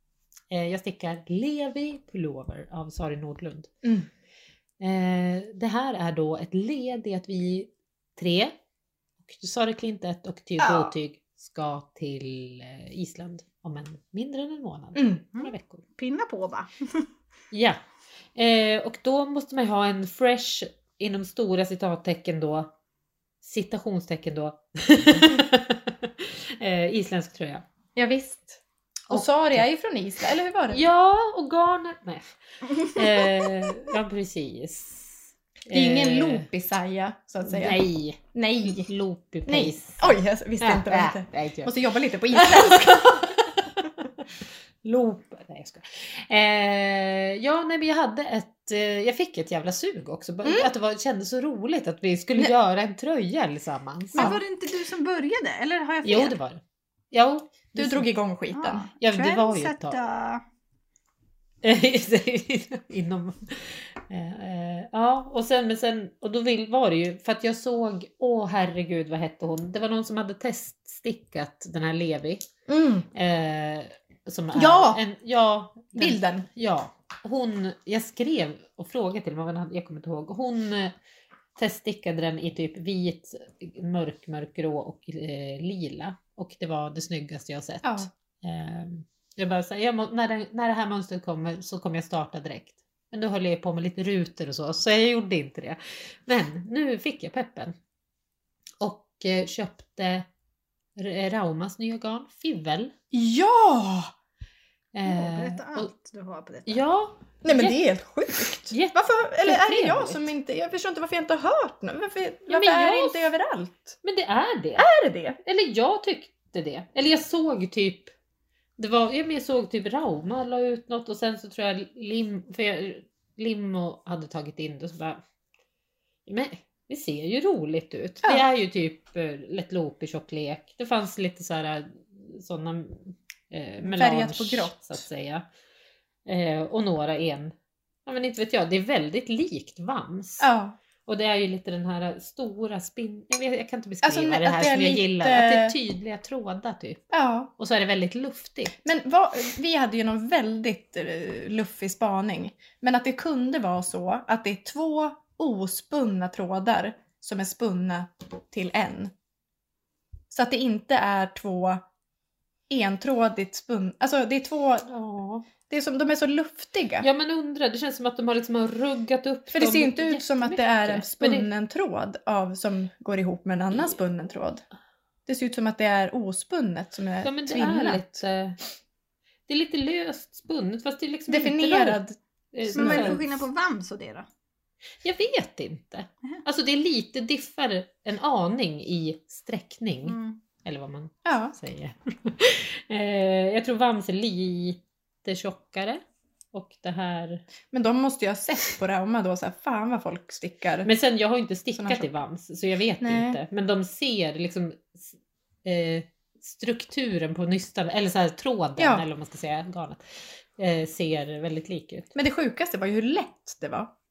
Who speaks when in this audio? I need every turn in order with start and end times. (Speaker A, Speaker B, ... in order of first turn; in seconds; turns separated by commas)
Speaker A: 0.5-3.7, Speaker B: 3.8-4.1, Speaker A: 4.8-8.5, Speaker A: 9.2-15.8, Speaker B: 10.6-10.9, Speaker B: 14.9-15.2, Speaker C: 15.3-17.1, Speaker A: 17.5-17.8, Speaker A: 18.4-22.7, Speaker A: 23.4-27.6, Speaker B: 27.9-30.8, Speaker A: 29.1-29.6, Speaker A: 30.7-36.5, Speaker B: 35.7-38.9, Speaker A: 37.4-41.7, Speaker B: 39.5-43.3, Speaker A: 42.3-44.2, Speaker A: 44.8-54.4, Speaker B: 50.4-50.7, Speaker B: 54.1-54.4, Speaker C: 54.1-56.4, Speaker A: 56.0-56.6, Speaker A: 57.1-58.0, Speaker B: 57.7-58.9, Speaker C: 58.5-60.4, Speaker A: 59.0-60.0, Speaker A: 61.6-72.5, Speaker B: 72.7-73.1, Speaker A: 73.1-80.9, Speaker B: 74.5-75.0, Speaker B: 76.0-76.5, Speaker A: 81.5-97.8, Speaker B: 87.8-88.1, Speaker A: 98.8-100.3, Speaker A: 101.0-102.9, Speaker B: 103.1-104.1, Speaker A: 104.9-105.9, Speaker C: 105.1-106.8, Speaker A: 106.7-107.8, Speaker B: 107.4-114.0, Speaker A: 108.6-110.3, Speaker A: 112.5-113.3, Speaker A: 114.0-114.9, Speaker B: 114.8-115.4, Speaker A: 115.4-118.1, Speaker A: 118.8-125.2, Speaker A: 126.2-135.4, Speaker B: 133.8-134.9, Speaker A: 136.2-137.5, Speaker A: 138.1-140.5, Speaker B: 140.4-140.8, Speaker A: 141.1-147.1, Speaker B: 144.0-145.8, Speaker B: 147.1-147.5, Speaker A: 147.6-148.8, Speaker B: 148.8-159.1, Speaker B: 160.3-161.8, Speaker B: 162.7-164.9, Speaker A: 164.9-165.4, Speaker B: 165.6-167.1, Speaker A: 167.0-171.5, Speaker B: 169.5-174.6, Speaker A: 173.7-174.0, Speaker B: 175.3-178.1, Speaker A: 177.2-178.6, Speaker A: 179.5-182.0, Speaker B: 181.3-182.2, Speaker A: 182.5-183.4, Speaker B: 182.7-183.2, Speaker C: 182.7-184.2, Speaker A: 185.0-196.0, Speaker C: 190.1-190.4, Speaker B: 191.2-191.6, Speaker A: 196.5-197.4, Speaker B: 197.7-200.9, Speaker A: 200.8-212.1, Speaker B: 201.8-202.1, Speaker B: 203.0-203.4, Speaker B: 208.8-209.0, Speaker B: 212.1-213.9